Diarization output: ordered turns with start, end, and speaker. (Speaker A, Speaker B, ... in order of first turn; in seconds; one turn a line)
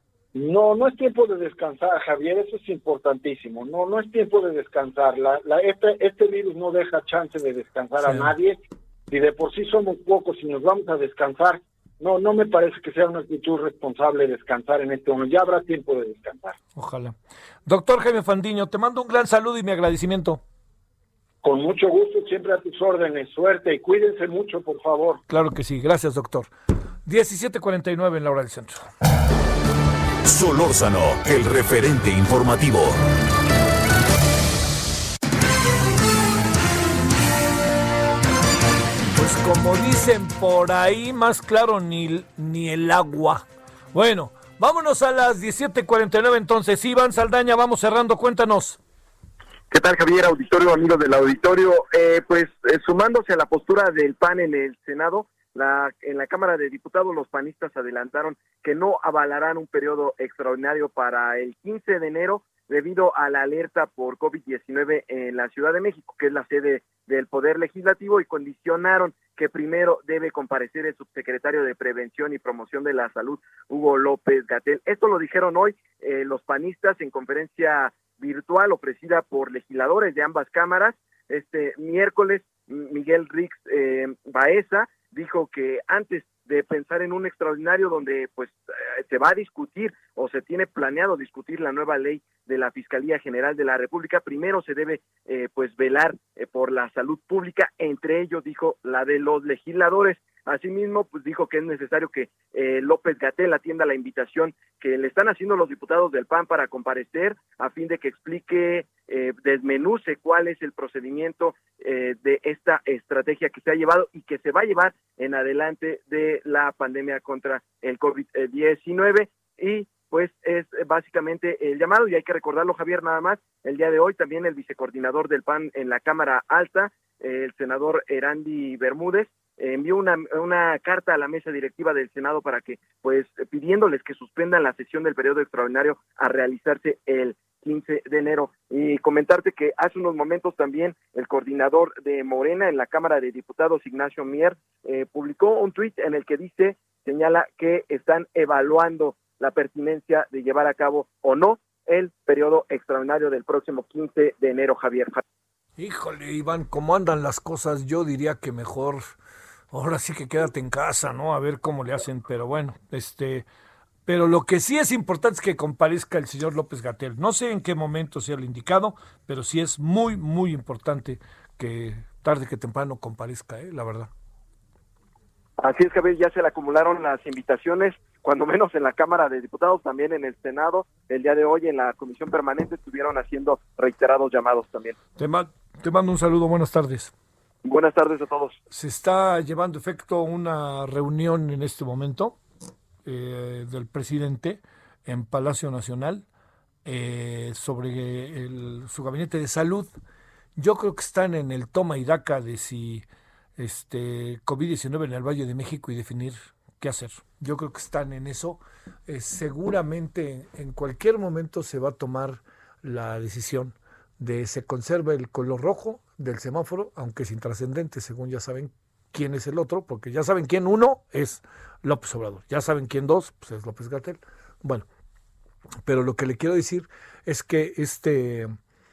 Speaker A: 0.3-8.6
Speaker B: 8.0-8.3
Speaker A: 9.1-16.6
Speaker B: 16.8-20.4
Speaker A: 21.4-25.2
Speaker B: 25.3-26.5
Speaker B: 27.1-28.9
Speaker C: 30.2-33.0
Speaker B: 39.1-48.8
Speaker D: 49.7-155.2
Speaker B: 155.8-159.2
Speaker B: 159.7-163.5
Speaker B: 164.1-174.1
Speaker D: 175.6-185.0
Speaker B: 185.2-187.1
Speaker D: 187.6-188.6
Speaker B: 188.7-192.4
Speaker B: 193.1-196.2
Speaker B: 196.8-199.9
Speaker B: 200.6-203.1
Speaker B: 203.6-224.9
Speaker B: 225.8-228.5